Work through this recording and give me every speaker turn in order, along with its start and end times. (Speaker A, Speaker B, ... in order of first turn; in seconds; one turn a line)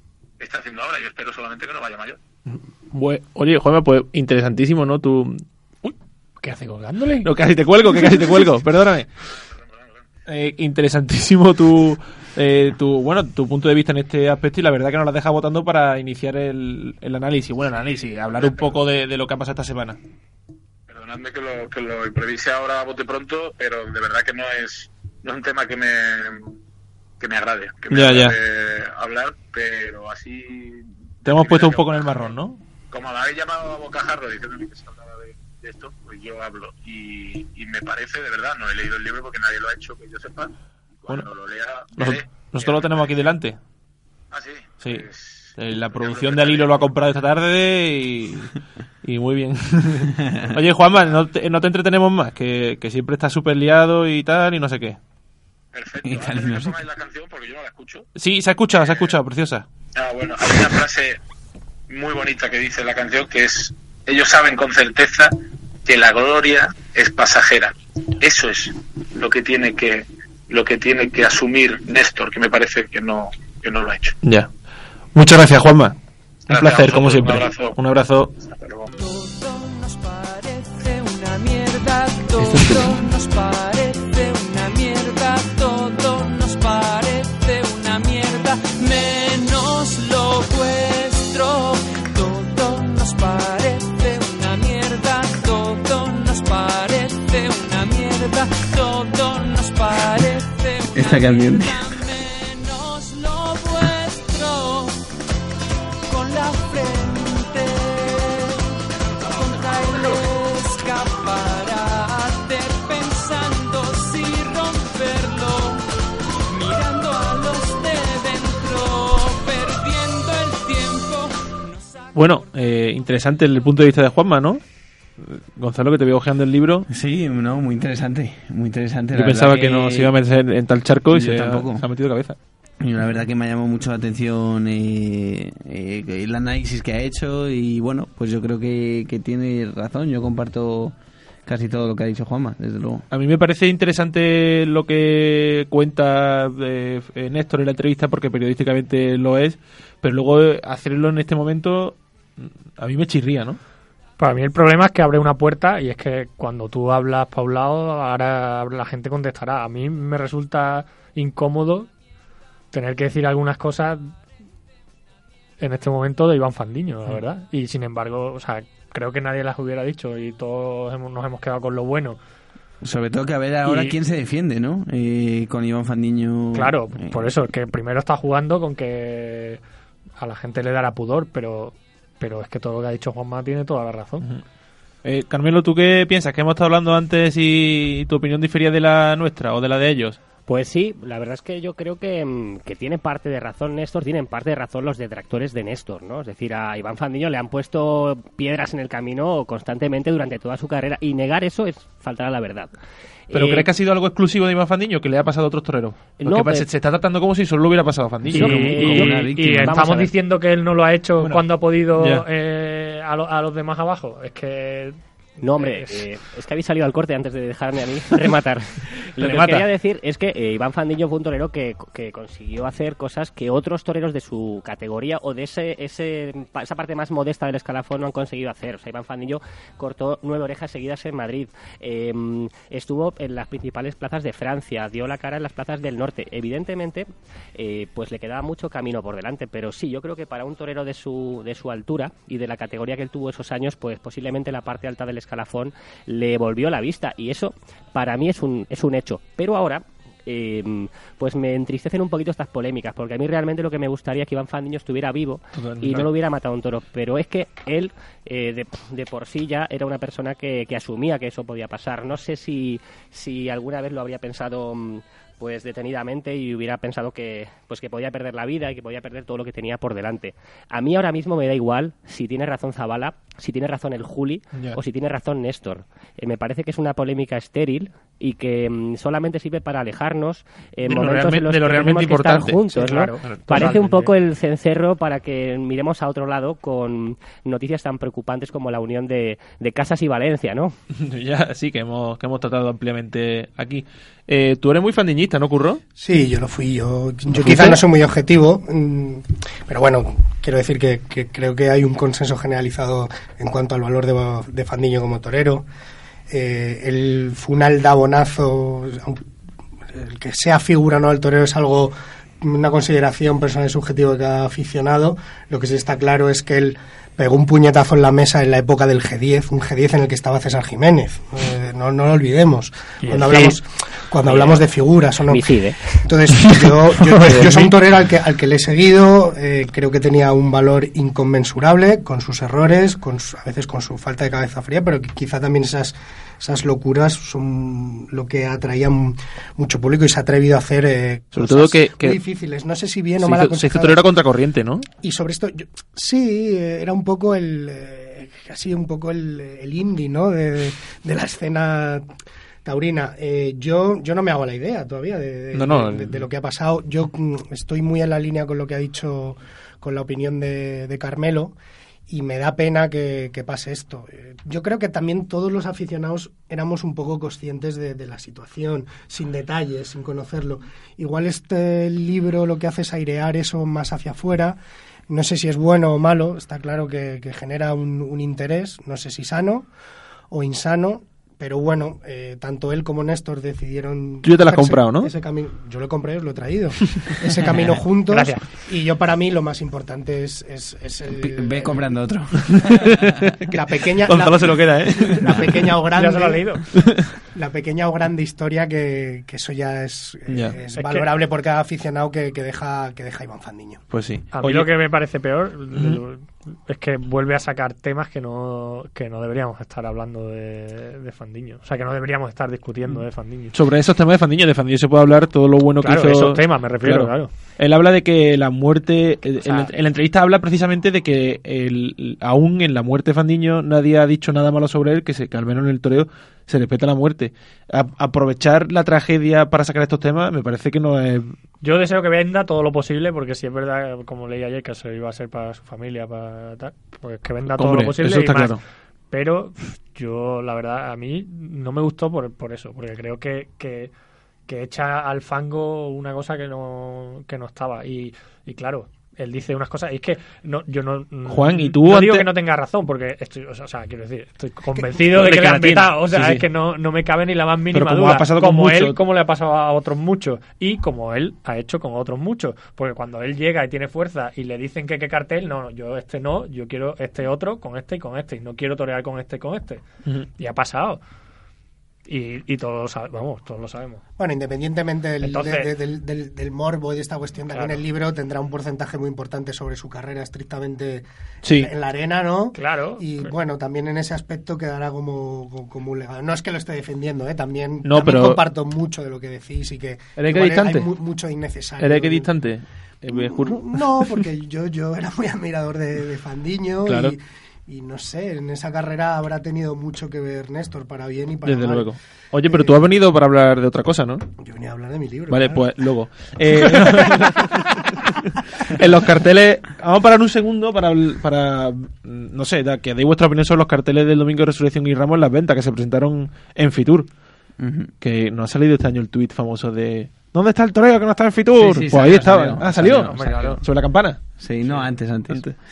Speaker A: 0.4-2.2
Speaker B: 2.5-5.9
Speaker C: 6.4-7.3
Speaker B: 7.2-9.1
Speaker A: 9.2-10.1
Speaker B: 10.3-20.0
Speaker A: 17.6-18.8
Speaker A: 20.9-26.5
Speaker A: 27.2-32.4
Speaker B: 27.9-28.4
Speaker B: 31.2-32.6
Speaker A: 32.9-40.5
Speaker A: 41.0-43.2
Speaker B: 42.0-43.6
Speaker A: 44.3-46.9
Speaker B: 45.5-55.0
Speaker D: 50.2-50.5
Speaker A: 55.7-58.1
Speaker D: 56.0-56.8
Speaker B: 58.1-59.6
Speaker A: 59.9-61.2
Speaker A: 61.9-65.3
Speaker A: 65.8-74.2
Speaker B: 74.2-74.5
Speaker B: 75.1-75.9
Speaker A: 76.5-77.8
Speaker B: 76.5-78.3
Speaker A: 78.4-78.9
Speaker E: 79.0-105.0
Speaker B: 82.4-83.0
Speaker D: 100.9-101.8
Speaker E: 106.1-108.7
Speaker E: 109.3-115.8
Speaker E: 116.5-122.1
Speaker B: 122.1-124.6
Speaker B: 125.2-126.9
Speaker D: 126.9-130.1
Speaker B: 129.1-132.3
Speaker D: 131.1-131.8
Speaker D: 132.8-143.0
Speaker B: 143.1-153.6
Speaker C: 154.2-161.9
Speaker C: 162.7-164.1
Speaker C: 165.6-172.2
Speaker D: 172.8-177.3
Speaker C: 173.6-173.9
Speaker C: 176.5-179.6
Speaker C: 180.2-184.3
Speaker B: 185.0-190.2
Speaker F: 190.5-202.7
Speaker F: 203.3-203.7
Speaker B: 203.3-208.8
Speaker F: 206.2-206.7
Speaker C: 208.3-215.0
Speaker D: 208.3-209.8
Speaker F: 208.4-210.1
Speaker B: 211.9-212.2
Speaker F: 215.4-290.7
Speaker C: 215.6-216.0
Speaker B: 219.2-219.6
Speaker B: 255.5-256.1
Speaker B: 280.8-283.9
Speaker C: 282.8-284.1
Speaker B: 290.9-295.8
Speaker G: 296.0-305.6
Speaker B: 297.3-297.8
Speaker G: 306.3-309.2
Speaker G: 309.9-325.5
Speaker C: 323.0-323.5
Speaker F: 324.2-324.6
Speaker F: 325.3-326.0
Speaker G: 326.0-344.0
Speaker B: 341.3-342.2
Speaker B: 343.2-344.9
Speaker G: 345.0-352.1
Speaker G: 352.6-361.5
Speaker B: 355.5-356.2
Speaker G: 362.1-374.6
Speaker G: 375.1-379.7
Speaker G: 380.3-391.9
Speaker B: 384.2-385.1
Speaker C: 388.1-388.5
Speaker D: 391.1-393.1
Speaker B: 392.5-395.7
Speaker G: 393.5-396.8
Speaker C: 395.9-396.7
Speaker B: 396.8-397.0
Speaker G: 397.3-403.8
Speaker B: 400.3-400.6
Speaker B: 403.9-404.7
Speaker C: 404.3-413.6
Speaker B: 405.7-406.0
Speaker B: 412.9-431.4
Speaker C: 415.8-417.3
Speaker C: 419.4-419.7
Speaker C: 431.6-438.6
Speaker B: 437.5-438.6
Speaker C: 439.1-443.9
Speaker C: 444.5-469.8
Speaker B: 451.3-452.3
Speaker B: 454.7-456.4
Speaker B: 457.7-459.0
Speaker C: 470.4-471.0
Speaker C: 472.1-474.0
Speaker G: 474.2-492.3
Speaker C: 475.2-475.7
Speaker C: 477.5-477.8
Speaker B: 481.4-481.7
Speaker C: 482.5-483.3
Speaker B: 487.8-488.4
Speaker B: 490.2-490.9
Speaker B: 491.8-494.1
Speaker G: 493.1-501.9
Speaker B: 496.9-497.1
Speaker B: 501.4-504.2
Speaker G: 502.4-502.8
Speaker G: 504.4-505.6
Speaker B: 505.3-507.8
Speaker G: 506.6-507.6
Speaker B: 508.6-517.1
Speaker D: 517.6-517.9
Speaker B: 518.0-525.5
Speaker D: 521.6-523.6
Speaker C: 522.8-523.6
Speaker D: 524.4-525.5